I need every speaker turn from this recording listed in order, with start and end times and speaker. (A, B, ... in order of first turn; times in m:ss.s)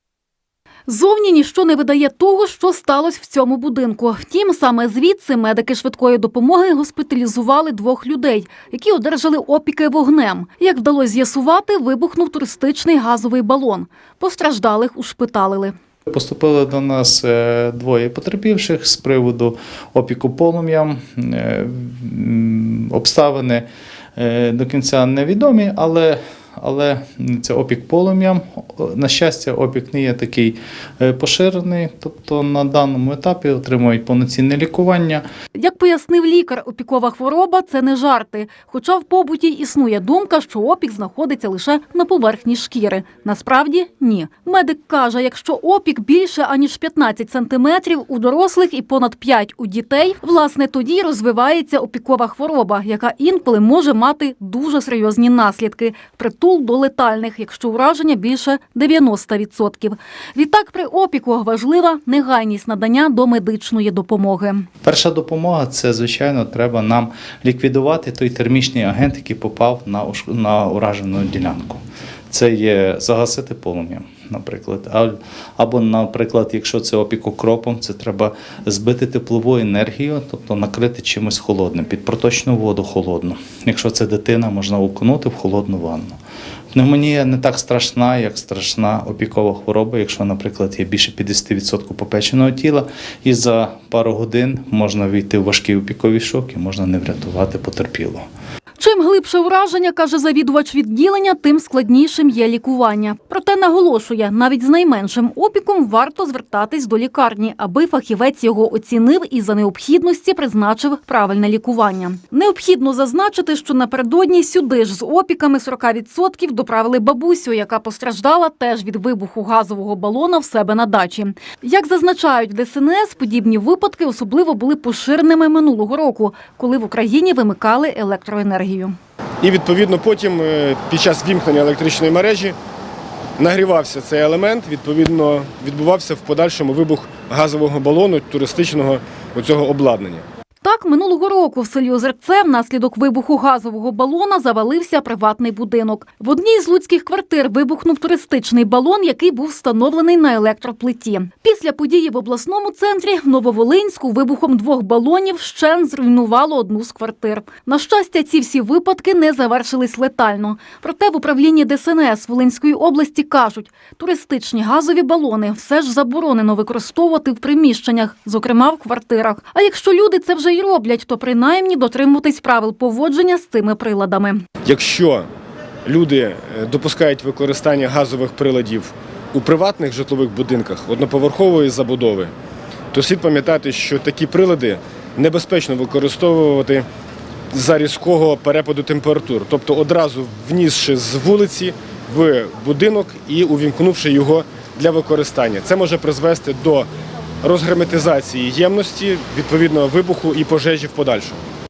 0:00.9-0:15.7 A
0:16.1-0:35.2 B
0:35.5-1:04.7 A
1:04.8-1:26.2 B
1:26.7-1:38.2 B
1:38.8-2:08.9 A
2:09.4-2:12.6 C
2:13.4-2:20.2 C
2:20.6-2:54.4 A
2:54.6-2:55.3 C
2:55.8-3:02.3 C
3:02.9-3:06.9 C
3:07.5-3:16.9 C
3:17.4-3:21.4 C